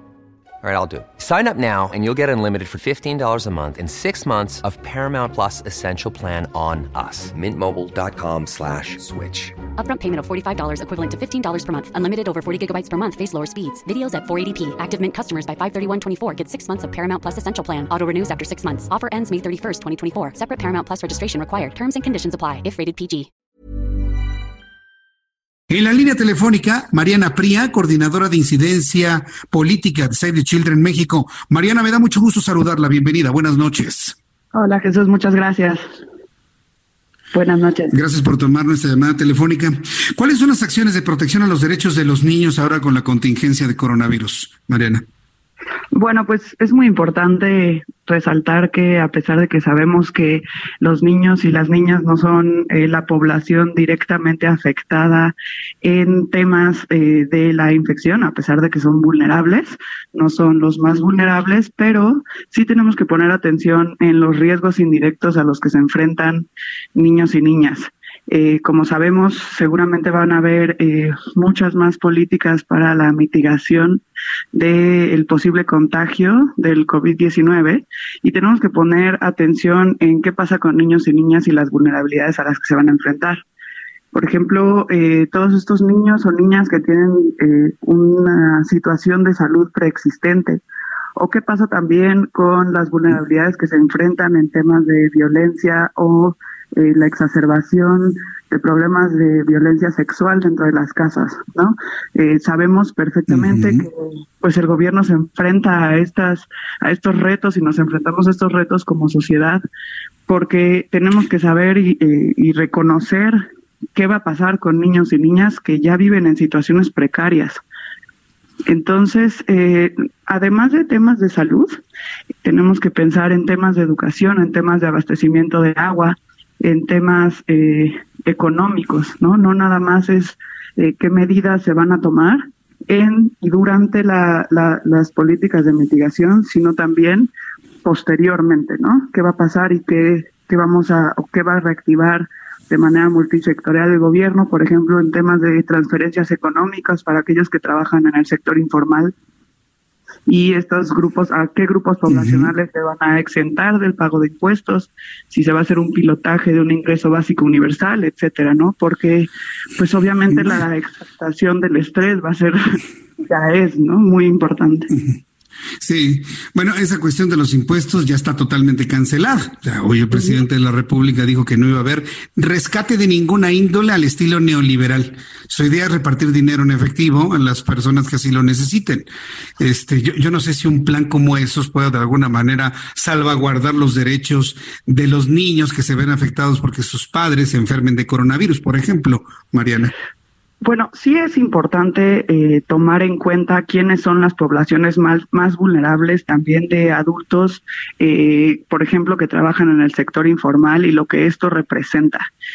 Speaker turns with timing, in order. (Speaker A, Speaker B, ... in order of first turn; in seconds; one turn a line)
Speaker A: 0.6-9.6
Speaker B: 9.7-23.3
Speaker C: 25.7-34.1
Speaker D: 34.5-36.0
Speaker D: 37.3-38.0
Speaker C: 37.9-45.0
Speaker D: 45.9-83.4
Speaker D: 84.1-90.6
Speaker D: 91.2-109.6
Speaker C: 103.3-103.8
Speaker D: 110.3-113.4
Speaker D: 113.9-117.6
Speaker D: 118.7-121.8
Speaker D: 122.4-137.3
Speaker D: 137.8-149.1
Speaker D: 150.3-164.9
Speaker C: 152.1-152.5
Speaker C: 164.9-165.2
Speaker C: 165.8-189.9
Speaker D: 190.6-202.3